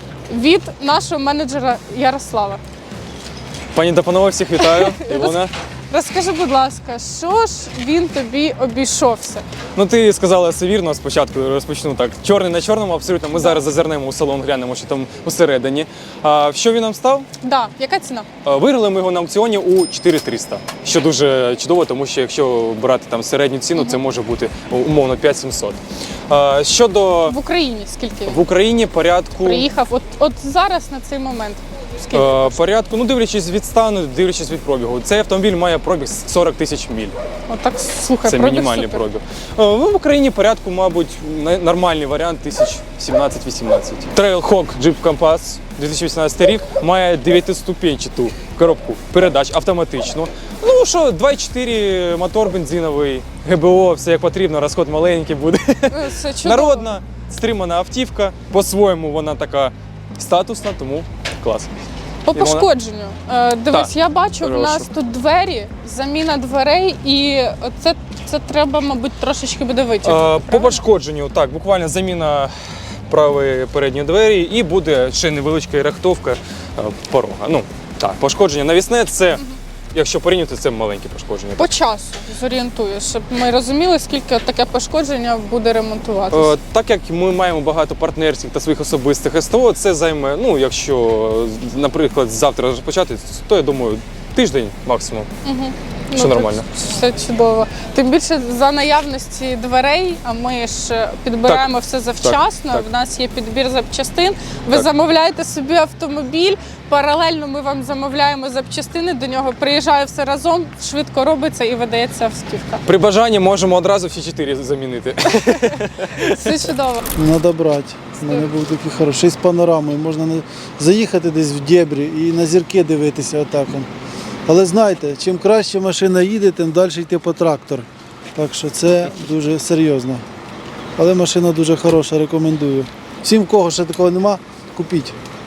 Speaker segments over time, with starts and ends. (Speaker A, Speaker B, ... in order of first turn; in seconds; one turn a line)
Speaker A: 0.3-2.6
Speaker B: 3.7-5.5
Speaker A: 4.6-9.4
Speaker B: 9.8-17.3
Speaker A: 13.3-13.6
Speaker A: 17.4-18.3
Speaker B: 18.4-27.4
Speaker A: 27.3-28.4
Speaker B: 28.3-29.7
Speaker A: 29.4-32.6
Speaker B: 32.1-37.2
Speaker A: 37.5-39.0
Speaker B: 38.2-61.7
Speaker A: 55.9-56.9
Speaker A: 62.3-70.8
Speaker B: 62.3-62.7
Speaker B: 63.7-64.9
Speaker B: 70.0-72.5
Speaker B: 73.1-81.7
Speaker A: 81.6-86.5
Speaker B: 86.3-95.3
Speaker A: 95.5-112.8
Speaker B: 96.2-96.7
Speaker B: 102.2-102.8
Speaker B: 112.8-116.6
Speaker A: 115.3-117.0
Speaker C: 117.1-123.9
Speaker A: 118.2-118.5
Speaker C: 124.5-130.2
Speaker C: 131.0-135.2